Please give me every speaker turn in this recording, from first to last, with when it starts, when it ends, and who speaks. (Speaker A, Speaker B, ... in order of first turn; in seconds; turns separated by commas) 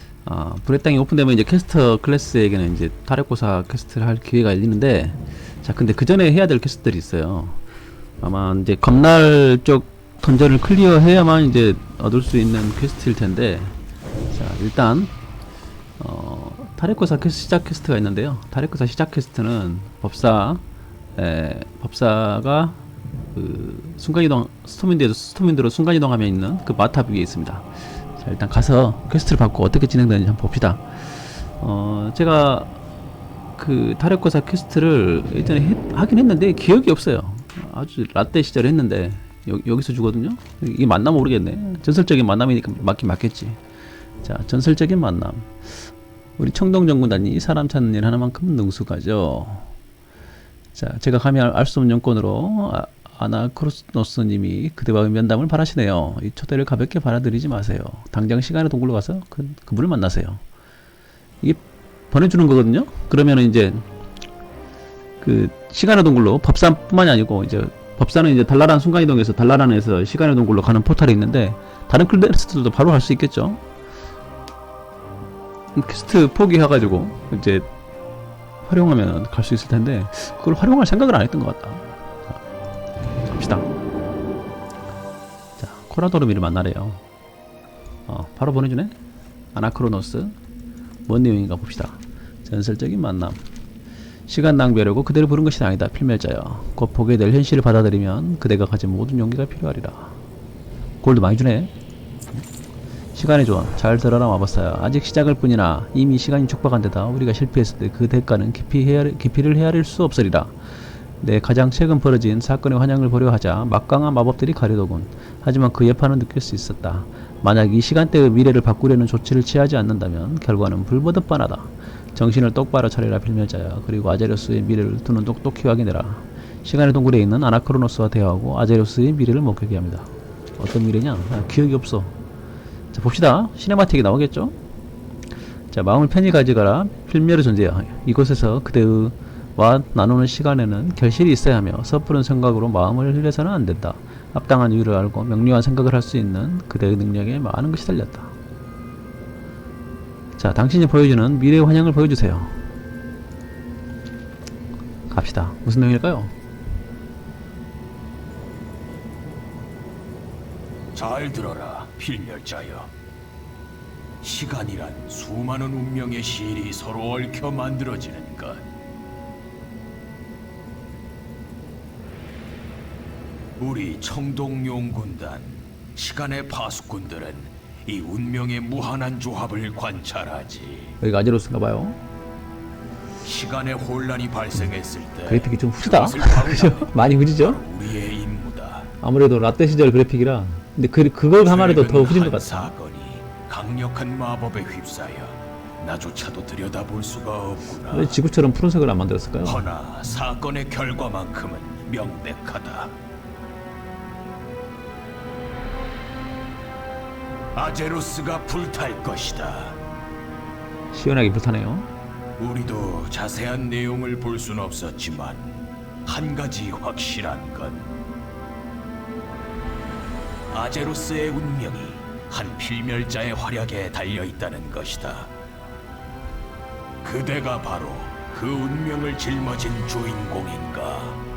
Speaker A: 0.2-7.6, Speaker A: 8.2-13.8, Speaker A: 14.3-15.1, Speaker A: 16.0-20.6, Speaker A: 21.2-22.8, Speaker A: 23.3-32.7, Speaker A: 33.6-43.6, Speaker A: 44.2-49.7, Speaker A: 50.8-60.4, Speaker A: 61.4-63.9, Speaker A: 65.2-73.6, Speaker A: 75.7-77.7, Speaker A: 78.6-82.0, Speaker A: 83.2-83.7, Speaker A: 85.6-87.0, Speaker A: 88.1-89.0, Speaker A: 89.5-90.4, Speaker A: 91.1-93.4, Speaker A: 94.3-100.2, Speaker A: 101.0-101.7, Speaker A: 103.2-110.6, Speaker A: 111.2-132.2, Speaker A: 132.9-134.6, Speaker A: 135.7-148.3, Speaker A: 150.4-152.6, Speaker A: 155.1-156.3, Speaker B: 160.9-162.9, Speaker B: 164.2-168.7, Speaker B: 173.6-181.0, Speaker A: 181.0-182.0, Speaker B: 183.2-188.9, Speaker A: 185.3-187.6, Speaker A: 189.0-192.7, Speaker B: 191.4-198.2, Speaker A: 197.9-199.7, Speaker B: 199.4-203.0, Speaker B: 207.6-209.8, Speaker A: 210.9-211.9, Speaker B: 212.4-217.9, Speaker B: 220.5-225.3, Speaker B: 227.0-231.2